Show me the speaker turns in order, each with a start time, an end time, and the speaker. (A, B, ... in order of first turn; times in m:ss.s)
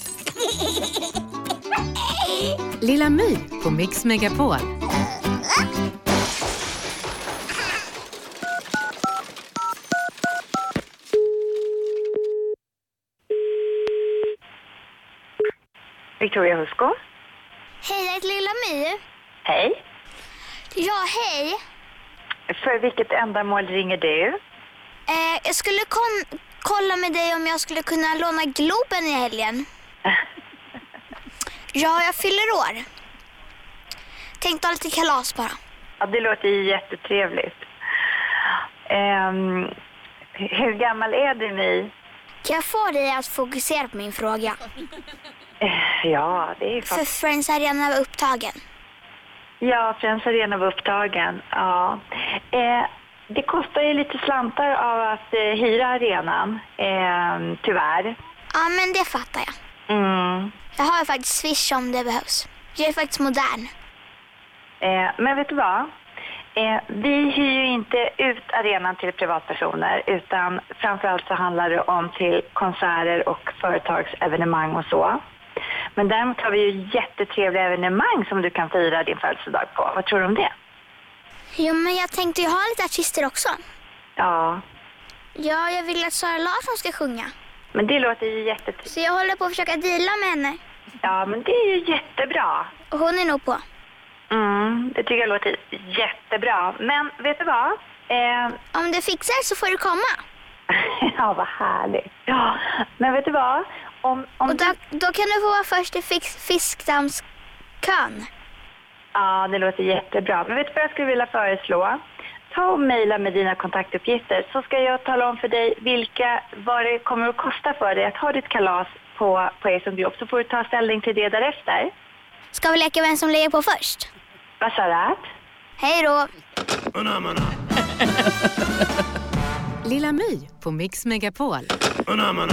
0:02.8-0:04.7 A
0:16.2-0:16.9 B
0:17.8-0:19.0 C
0:19.4-0:19.8 B
0:20.7-0:21.6 C
0:22.5-0:24.4 B
0:25.1-0:29.7 C
0:31.7-0:32.8 C
0:34.4-0:35.6 C
0:36.0-0:37.7 B
0:38.9-0:39.7 B
0:40.4-0:41.9 B
0:42.4-0:44.6 C
0:45.6-0:47.0 B
0:46.8-0:48.6 C
0:49.6-0:58.2 B
0:58.5-0:59.5 C
0:59.9-1:00.6 B
1:00.7-1:03.7 C
1:04.8-1:05.9 B
1:06.6-1:15.2 B
1:16.0-1:20.5 B
1:21.6-1:23.6 C
1:24.2-1:24.6 B
1:25.4-1:27.3 C
1:27.7-1:28.9 B
1:28.9-1:30.6 C
1:31.0-1:32.7 B
1:32.8-1:33.6 C
1:34.3-1:38.6 B
1:38.7-1:40.2 C
1:40.7-1:44.7 B
1:44.5-1:47.2 C
1:47.8-1:48.3 C
1:49.1-2:01.9 B
2:02.5-2:04.1 C
2:04.6-2:05.2 B
2:05.8-2:06.3 C
2:09.8-2:11.7 A